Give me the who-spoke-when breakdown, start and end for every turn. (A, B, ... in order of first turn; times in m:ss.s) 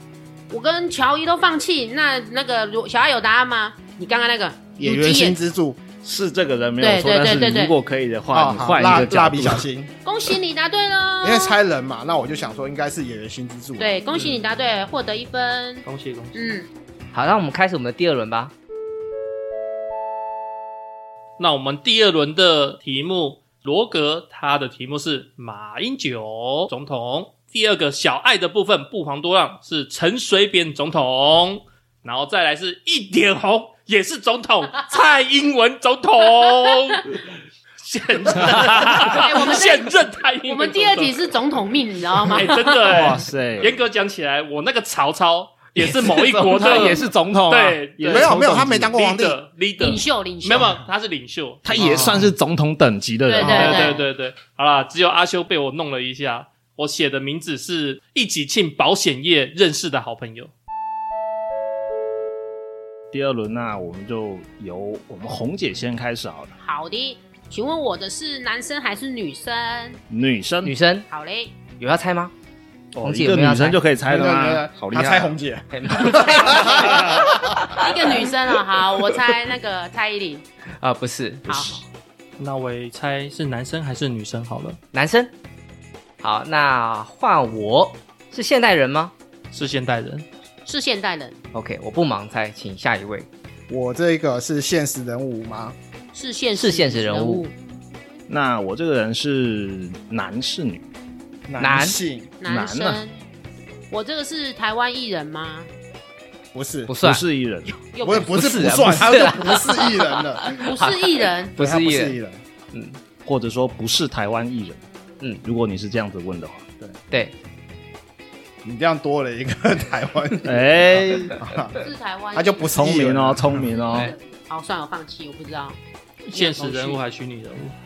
0:00.5-0:05.4 A
0:04.8-0:05.8 B
0:06.0-0:09.6 C
0:06.8-0:07.8 A
0:08.3-0:09.9 B
0:10.0-0:11.6 A
0:11.2-0:14.0 B
0:13.8-0:16.7 A
0:14.1-0:14.4 D
0:15.9-0:16.6 D
0:17.1-0:18.5 E
0:21.4-0:41.3 D
0:38.3-0:39.2 C
0:39.0-0:39.9 A
0:40.5-0:43.1 A
0:42.2-0:52.3 D
0:42.9-0:43.8 C
0:45.8-0:48.9 C
0:48.1-0:49.4 B
0:49.8-0:50.8 A
0:51.6-0:53.9 C
0:51.8-0:52.2 B
0:53.3-0:54.0 A
0:53.4-1:00.5 D
0:53.6-0:53.9 B
1:03.1-1:06.6 C
1:06.6-1:10.0 A
1:10.1-1:10.7 C
1:10.6-1:11.1 E
1:11.1-1:11.6 A
1:11.8-1:12.3 E
1:13.0-1:15.3 C
1:13.0-1:13.8 E
1:14.1-1:17.7 B
1:15.7-1:17.0 E
1:16.0-1:17.1 A
1:17.7-1:20.4 A
1:20.8-1:21.8 E
1:22.4-1:24.8 D
1:24.9-1:25.3 E
1:26.2-1:29.1 E
1:29.5-1:30.3 D
1:30.7-1:31.4 A
1:31.5-1:33.3 E
1:33.7-1:35.8 B
1:36.1-1:37.5 A
1:36.6-1:37.5 E
1:38.3-1:40.8 C
1:41.5-1:42.3 B
1:41.6-1:42.0 E
1:42.4-1:43.2 A
1:42.4-1:43.0 C
1:43.9-1:45.7 A
1:46.5-1:46.9 B
1:46.9-1:47.2 E
1:47.0-1:47.8 C
1:47.9-1:48.6 A
1:48.0-1:50.5 B
1:48.3-1:52.2 E
1:50.5-1:51.6 A
1:51.6-1:52.4 B
1:52.7-1:53.0 E
1:53.2-1:54.8 C
1:55.4-1:56.6 C
1:58.6-2:01.8 B
2:00.4-2:01.4 C
2:01.8-2:02.7 A
2:02.3-2:03.7 B
2:02.8-2:04.1 C
2:03.7-2:05.8 A
2:06.3-2:07.8 D
2:06.3-2:07.0 A